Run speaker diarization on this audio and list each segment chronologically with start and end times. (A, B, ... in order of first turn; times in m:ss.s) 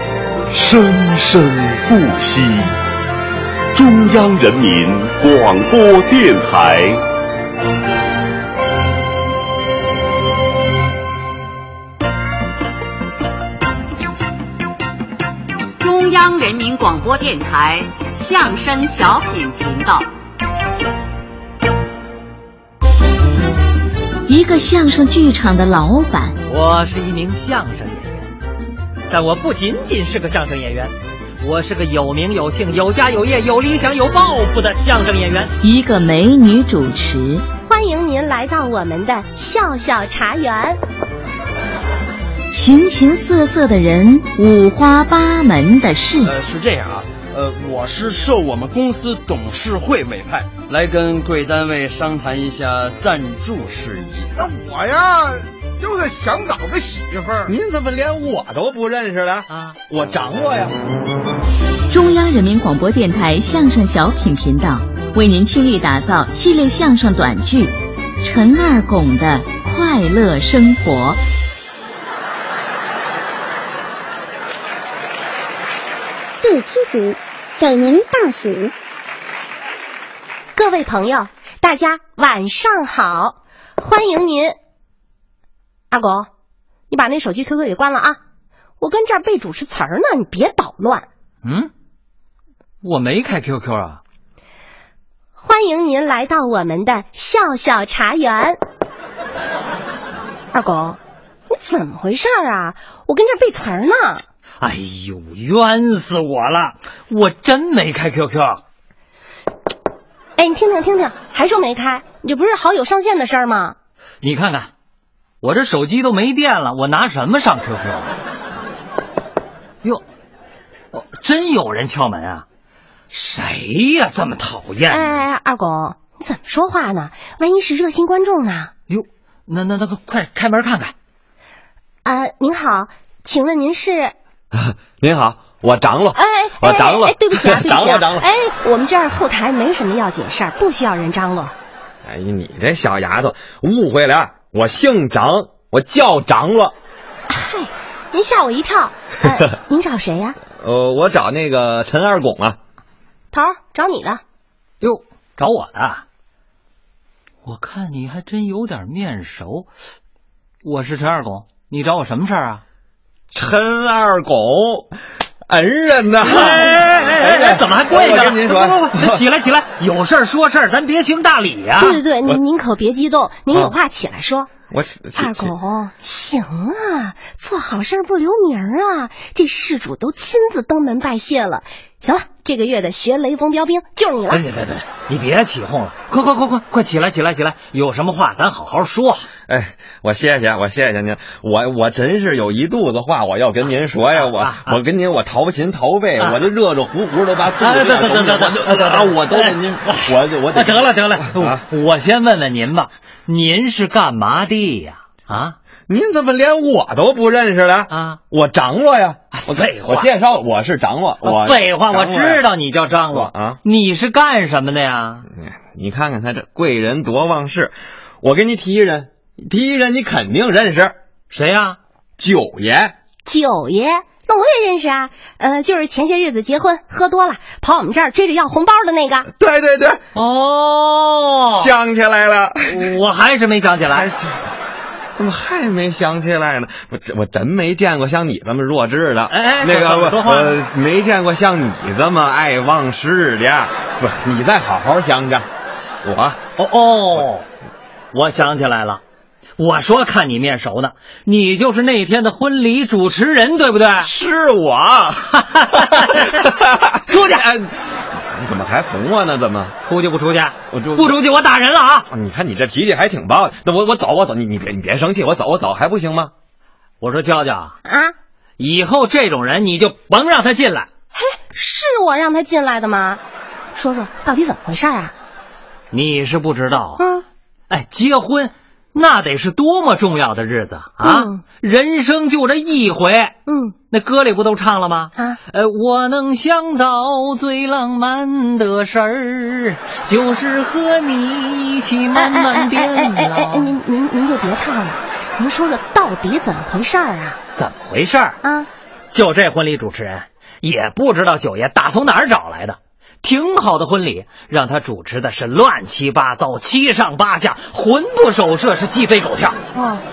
0:00.5-0:02.7 A
0:03.7-0:07.0 A
0:15.8-0:20.1 B
0:24.3-0:26.4 C
0:26.5-0:28.3 D
0:29.1-0:35.5 D
0:35.6-0:37.4 C
0:37.6-0:40.8 E
0:42.5-0:46.3 C
0:46.2-0:54.5 F
0:54.5-0:57.5 G
0:57.5-1:00.7 H
0:59.5-0:59.8 D
1:01.9-1:11.2 C
1:16.4-1:18.7 I
1:20.6-1:24.6 E
1:25.9-1:26.3 E
1:26.9-1:28.2 E
1:28.8-1:31.0 E
1:31.4-1:31.7 D
1:32.8-1:34.0 D
1:35.4-1:38.6 E
1:40.5-1:41.0 E
1:41.5-1:44.2 E
1:44.6-1:48.6 D
1:50.4-1:53.8 E
1:54.2-1:54.7 D
1:55.4-1:58.1 D
2:00.9-2:02.4 D
2:03.1-2:05.2 D
2:04.9-2:08.7 E
2:08.9-2:10.9 D
2:12.0-2:14.1 E
2:14.5-2:18.3 H
2:16.1-2:21.5 E
2:22.0-2:26.7 H
2:27.3-2:30.4 E
2:30.6-2:32.6 H
2:33.3-2:34.2 E
2:34.8-2:36.0 D
2:37.4-2:39.7 D
2:40.6-2:42.6 D
2:43.3-2:44.9 H
2:45.5-2:49.2 H
2:46.2-2:52.0 D
2:51.8-2:54.5 E
2:54.7-2:55.5 H
2:55.2-3:04.4 E
3:04.3-3:09.3 D
3:09.5-3:21.6 H
3:14.2-3:14.8 D
3:17.6-3:25.6 D
3:25.9-3:32.4 H
3:27.9-3:28.2 D
3:29.3-3:30.1 D
3:31.2-3:35.3 D
3:33.1-3:33.6 H
3:35.3-3:41.0 H
3:41.3-3:41.8 D
3:42.2-3:43.0 H
3:43.2-3:49.3 E
3:49.3-3:50.0 H
3:50.2-3:51.7 D
3:51.6-3:52.8 H
3:52.7-3:54.1 D
3:53.8-3:54.4 H
3:55.2-4:05.5 H
3:59.3-4:00.6 D
4:06.0-4:06.4 H
4:06.6-4:07.4 D
4:08.1-4:09.0 D
4:09.6-4:14.1 D
4:14.0-4:19.8 H
4:15.6-4:16.4 D
4:17.1-4:17.4 D
4:19.8-4:22.1 D
4:20.7-4:21.2 H
4:22.1-4:26.3 H
4:27.0-4:27.8 D
4:27.8-4:28.1 E
4:28.6-4:30.9 D
4:31.1-4:33.2 E
4:33.8-4:35.1 E
4:35.9-4:37.0 D
4:37.0-4:37.2 E
4:37.7-4:43.4 D
4:41.0-4:41.4 E
4:43.5-4:43.8 E
4:43.9-4:53.7 D
4:52.1-4:57.4 E
4:57.6-4:58.4 D
4:58.4-4:58.7 E
4:59.1-5:09.6 D
5:09.7-5:10.0 E